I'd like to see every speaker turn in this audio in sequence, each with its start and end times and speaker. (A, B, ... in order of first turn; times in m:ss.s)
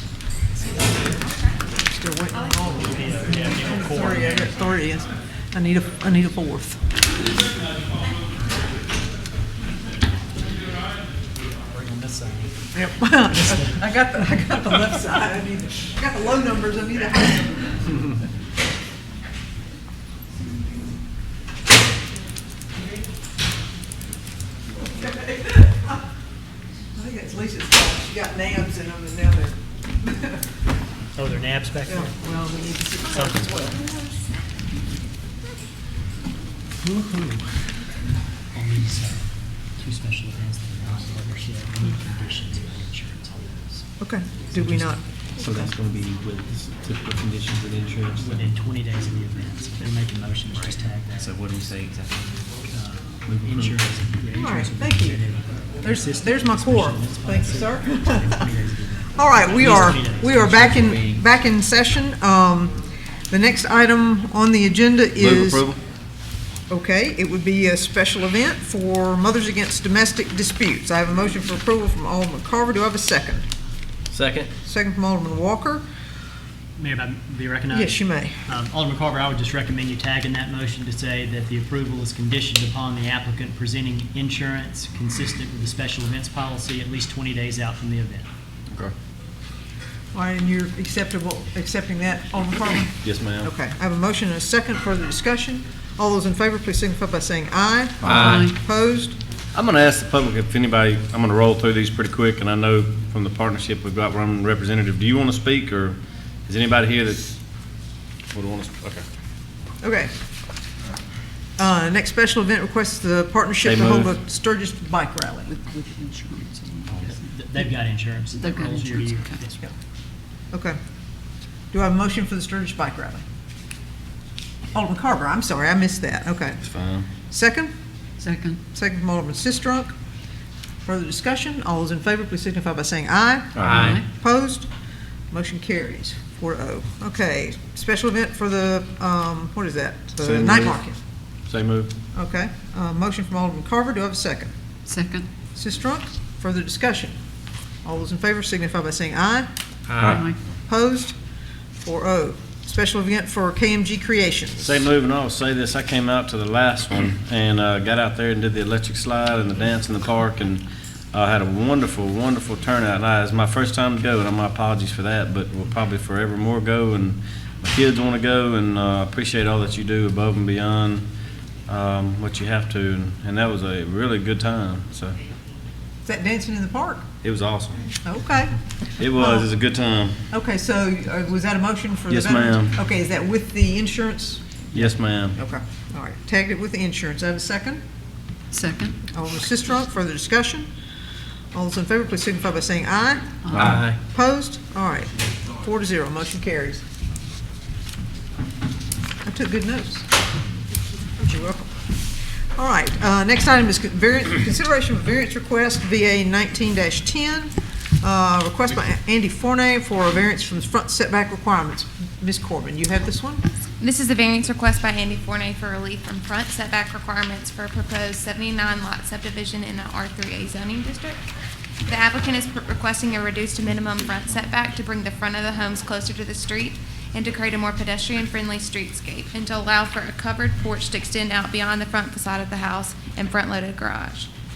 0:01.8-0:06.8 A
0:02.7-0:04.6 B
0:11.6-0:12.6 B
0:12.7-0:18.1 A
0:13.3-0:13.8 B
0:25.0-0:25.9 A
0:26.9-0:30.4 A
0:31.1-0:32.1 B
0:31.9-0:34.0 A
0:33.1-0:33.6 B
0:36.8-0:37.4 C
0:38.5-0:43.8 B
0:44.0-0:45.7 A
0:44.5-0:45.0 B
0:45.4-0:48.5 C
0:48.2-0:51.5 B
0:51.2-0:52.4 C
0:52.7-1:00.7 B
0:53.3-0:53.8 C
0:54.3-0:55.2 A
0:55.8-0:58.5 A
0:59.1-1:05.7 A
1:00.5-1:01.2 C
1:05.2-1:05.8 D
1:06.7-1:13.4 A
1:14.1-1:14.5 D
1:14.6-1:15.8 A
1:16.8-1:28.3 B
1:17.7-1:18.4 A
1:30.1-1:39.2 A
1:33.0-1:33.5 D
1:38.0-1:38.5 D
1:38.1-1:38.5 E
1:39.5-1:47.4 D
1:48.3-1:49.0 D
1:49.8-1:50.1 A
1:51.6-1:55.5 A
1:53.6-1:54.1 D
1:55.6-1:56.9 E
1:56.9-1:59.6 B
1:58.4-1:59.4 E
2:00.5-2:00.8 A
2:01.7-2:03.2 A
2:04.7-2:06.6 A
2:06.6-2:07.1 D
2:07.3-2:07.7 A
2:08.2-2:08.6 E
2:08.7-2:09.9 A
2:10.8-2:14.7 A
2:13.6-2:14.0 D
2:13.6-2:14.0 E
2:15.3-2:21.0 A
2:20.2-2:20.8 D
2:21.5-2:21.9 D
2:22.1-2:24.5 A
2:24.9-2:25.3 E
2:25.5-2:27.2 A
2:27.8-2:29.5 A
2:29.9-2:30.2 C
2:30.0-2:30.4 E
2:30.6-2:31.1 A
2:31.8-2:34.8 A
2:34.6-2:51.1 D
2:51.7-2:55.2 D
2:56.0-2:57.0 A
2:57.2-2:57.9 D
2:58.0-2:58.6 A
2:59.0-3:00.2 D
2:59.1-2:59.5 A
3:00.3-3:04.4 A
3:02.1-3:02.7 D
3:04.7-3:05.4 D
3:05.4-3:07.8 A
3:08.5-3:09.0 E
3:09.1-3:10.7 A
3:11.5-3:16.8 A
3:13.4-3:13.7 E
3:13.5-3:13.8 D
3:13.5-3:14.0 C
3:19.2-3:20.0 A
3:21.2-3:21.7 A
3:22.5-3:33.4 A
3:33.8-3:41.2 F
3:41.8-3:54.3 F